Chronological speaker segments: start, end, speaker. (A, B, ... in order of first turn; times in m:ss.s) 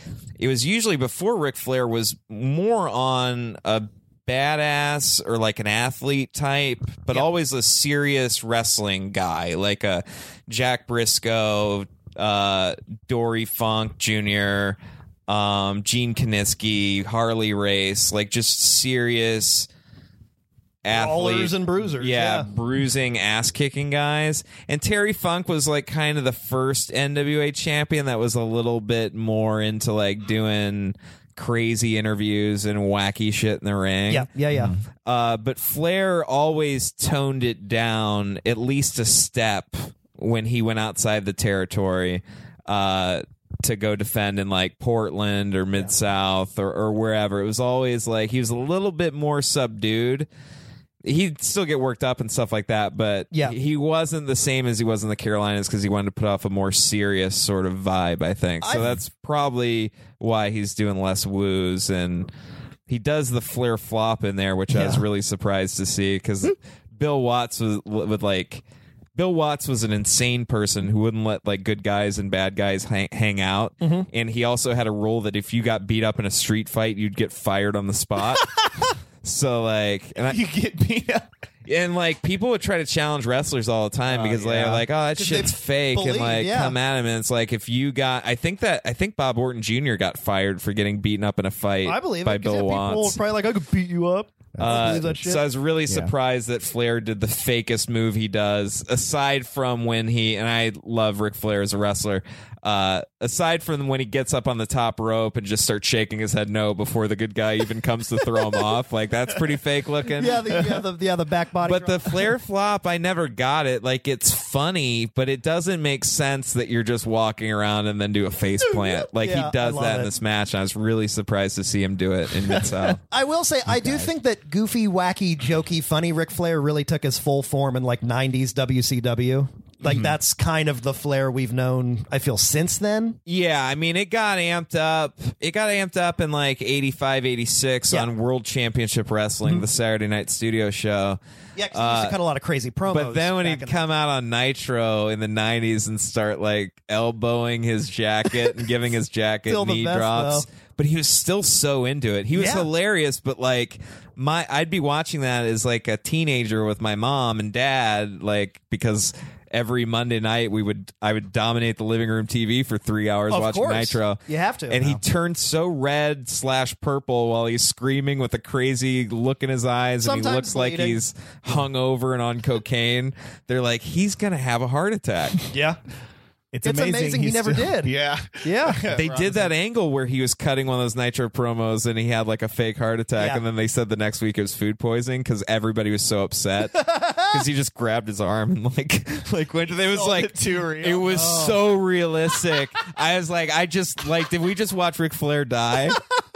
0:00.4-0:14.8 A
0:15.3-0:19.7 A
0:20.8-0:34.3 A
0:20.9-0:22.5 B
0:34.1-0:34.7 B
0:34.5-0:34.8 C
0:35.0-0:50.3 A
0:51.0-1:02.3 A
0:58.6-0:58.9 B
1:02.9-1:08.6 A
1:04.7-1:05.0 B
1:09.2-1:18.6 A
1:13.8-1:14.1 B
1:19.2-1:20.4 A
1:20.2-1:21.3 C
1:21.7-1:33.2 A
1:24.1-1:24.9 C
1:25.2-1:26.8 B
1:31.8-1:35.4 B
1:34.6-1:35.0 C
1:34.6-1:50.6 A
1:35.9-1:36.1 C
1:50.2-1:52.1 B
1:51.6-2:03.0 A
1:59.2-2:00.1 B
2:02.4-2:03.0 C
2:03.1-2:13.2 B
2:03.7-2:04.1 C
2:09.8-2:10.1 C
2:13.3-2:21.2 A
2:21.6-2:23.8 B
2:21.7-2:22.2 A
2:22.9-2:55.4 A
2:29.5-2:30.4 B
2:32.3-2:32.7 B
2:43.3-2:45.0 B
2:50.0-2:51.0 B
2:55.5-2:55.8 B
2:56.5-2:59.5 C
2:56.6-2:58.8 B
2:58.9-3:16.0 A
3:03.2-3:03.4 B
3:06.8-3:07.3 B
3:09.9-3:11.2 C
3:11.1-3:11.6 B